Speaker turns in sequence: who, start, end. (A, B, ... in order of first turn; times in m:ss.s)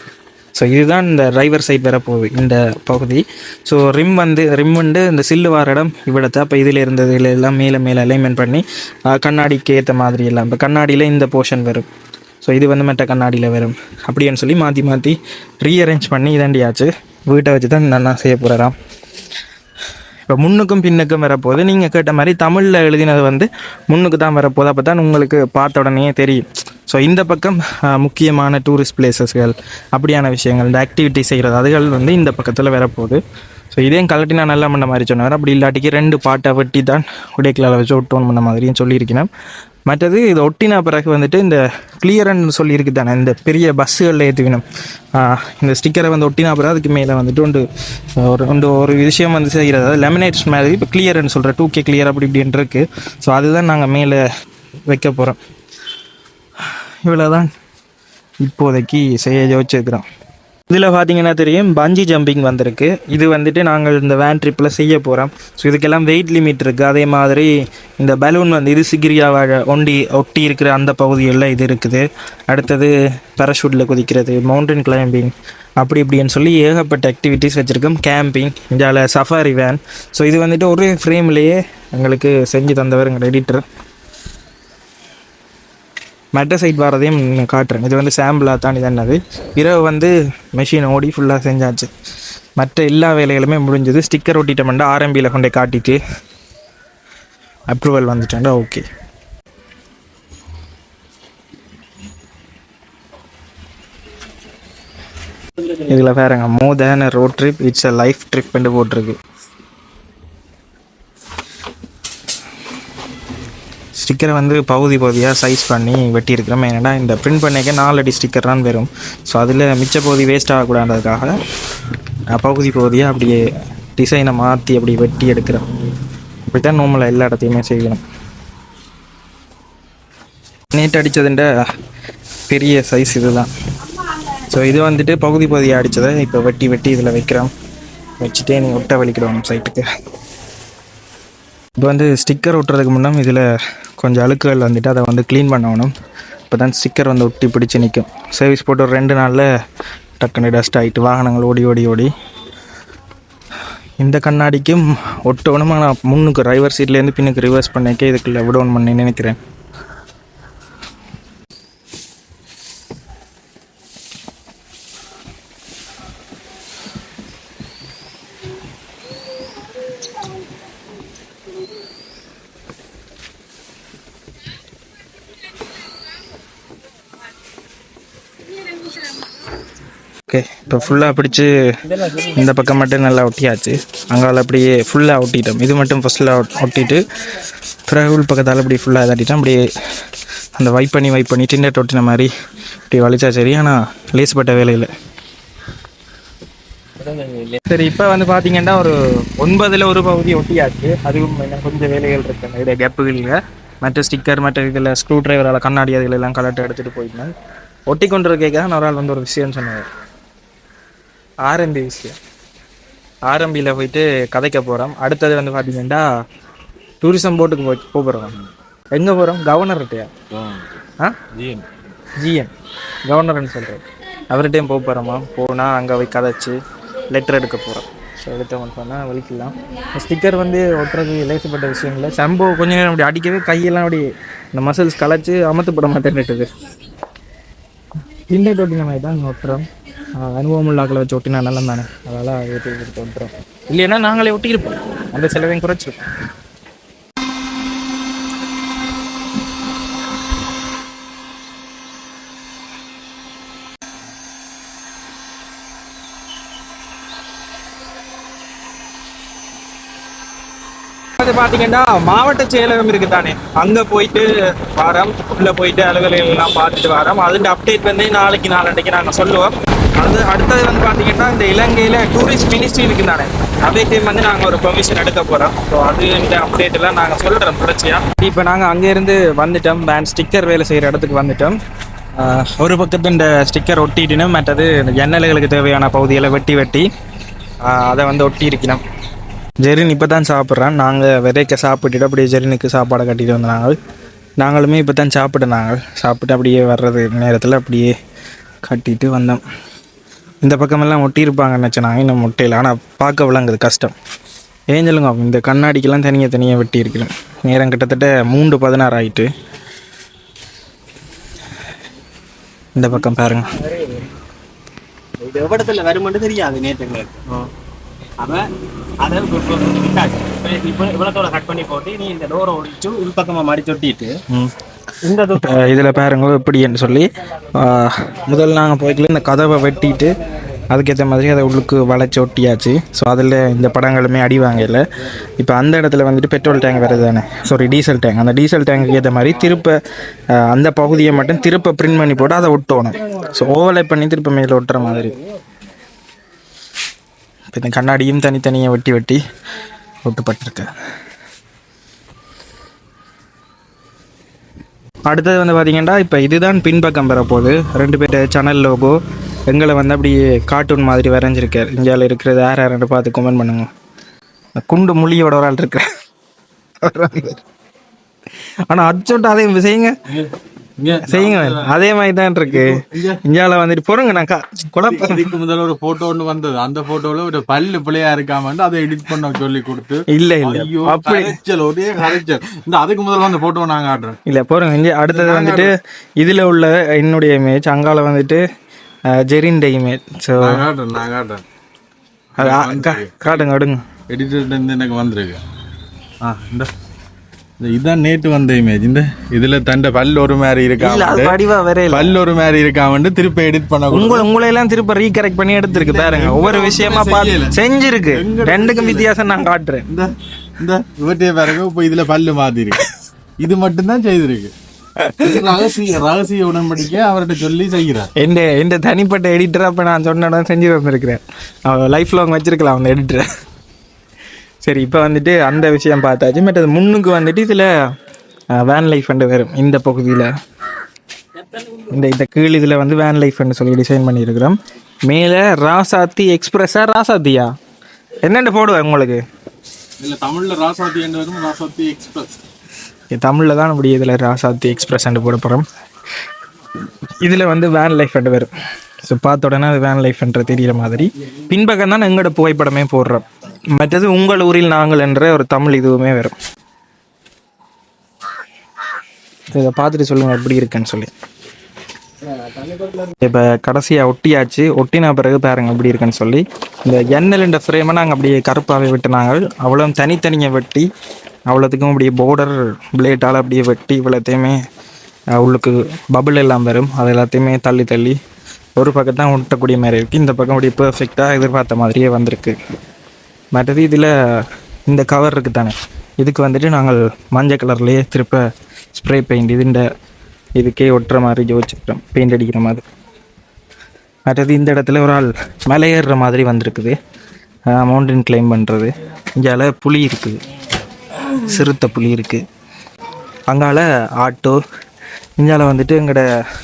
0:00.6-0:11.9 A
0:12.4-0:18.7 A
0:20.3-0:33.2 A
0:33.7-0:39.3 A
0:39.9-0:44.6 A
0:45.2-0:47.6 A
0:48.2-0:54.2 A
0:54.9-0:55.4 A
0:57.0-0:57.5 A
0:58.4-1:00.0 A
1:00.7-1:07.5 A
1:08.0-1:23.6 A
1:26.3-1:31.9 A
1:32.6-1:36.0 A
1:37.7-1:38.8 A
1:45.8-1:49.2 A
1:54.0-2:01.3 A
2:02.3-2:03.4 A
2:04.0-2:05.6 A
2:06.5-2:08.0 A
2:10.7-2:11.5 A
2:12.5-2:13.5 A
2:14.5-2:17.5 A
2:18.2-2:19.8 A
2:21.8-2:23.4 A
2:24.0-2:25.9 A
2:26.5-2:29.5 A
2:30.2-2:32.1 A
2:34.0-2:39.4 A
3:00.3-3:01.5 A
3:01.9-3:02.4 B
3:02.1-3:07.0 A
3:07.9-3:09.6 A
3:10.6-3:12.3 A
3:12.9-3:14.9 A
3:17.0-3:17.6 B
3:17.7-3:27.3 A
3:27.9-3:29.9 A
3:31.4-3:32.2 A
3:33.3-3:36.1 A
3:37.0-3:38.4 A
3:38.9-3:40.1 A
3:40.3-3:40.8 B
3:41.3-3:41.6 B
3:42.2-3:42.5 A
3:43.1-3:46.6 A
3:47.1-3:56.5 A
3:58.3-3:59.7 A
4:00.2-4:06.0 A
4:21.2-4:41.6 A
4:42.2-4:46.9 A
4:47.6-4:48.8 A
4:49.6-4:53.8 A
4:54.4-4:57.9 A
4:58.7-4:59.4 A
5:00.4-5:03.9 A
5:04.7-5:09.3 A
5:12.8-5:13.6 A
5:13.6-5:14.0 B
5:15.2-5:17.5 B
5:18.2-5:18.5 B
5:19.0-5:24.2 B
5:25.0-5:25.7 B
5:25.3-5:30.2 A
5:30.7-5:34.8 A
5:35.4-5:39.8 A
5:40.4-5:45.2 A
5:47.5-5:49.2 A
5:50.0-5:50.7 A
5:55.1-6:03.7 A
6:04.6-6:05.8 A
6:06.8-6:07.4 A
6:08.7-6:10.0 A
6:10.1-6:11.7 C
6:11.0-6:15.3 A
6:12.5-6:13.2 C
6:14.9-6:24.2 C
6:20.1-6:21.4 A
6:24.3-6:28.4 A
6:25.1-6:25.7 C
6:29.1-6:30.6 A
6:30.4-6:31.4 C
6:32.4-6:33.3 C
6:32.4-6:33.8 A
6:34.1-6:35.4 C
6:36.2-6:36.7 C
6:37.6-6:44.3 C
6:40.8-6:42.1 A
6:43.9-6:49.9 A
6:45.7-6:49.1 C
6:49.9-6:52.8 C
6:53.4-6:54.5 C
6:55.0-6:55.6 A
6:55.2-6:58.1 C
6:58.2-7:03.3 A
7:04.6-7:07.7 A
7:08.6-7:10.3 A
7:11.9-7:14.6 A
7:15.1-7:17.5 A
7:18.2-7:19.2 A
7:20.0-7:22.4 C
7:23.1-7:25.7 A
7:27.2-7:28.5 A
7:29.1-7:33.2 A
7:33.8-7:36.4 A
7:39.5-7:41.1 A
7:42.5-7:43.0 B
7:43.1-7:50.9 A
7:51.5-7:54.6 A
7:55.4-7:58.2 A
7:58.8-8:02.6 A
8:03.5-8:08.4 A
8:08.9-8:09.9 A
8:10.6-8:12.8 A
8:14.3-8:17.0 A
8:17.7-8:20.4 A
8:21.3-8:22.4 A
8:23.5-8:24.6 A
8:25.4-8:26.3 A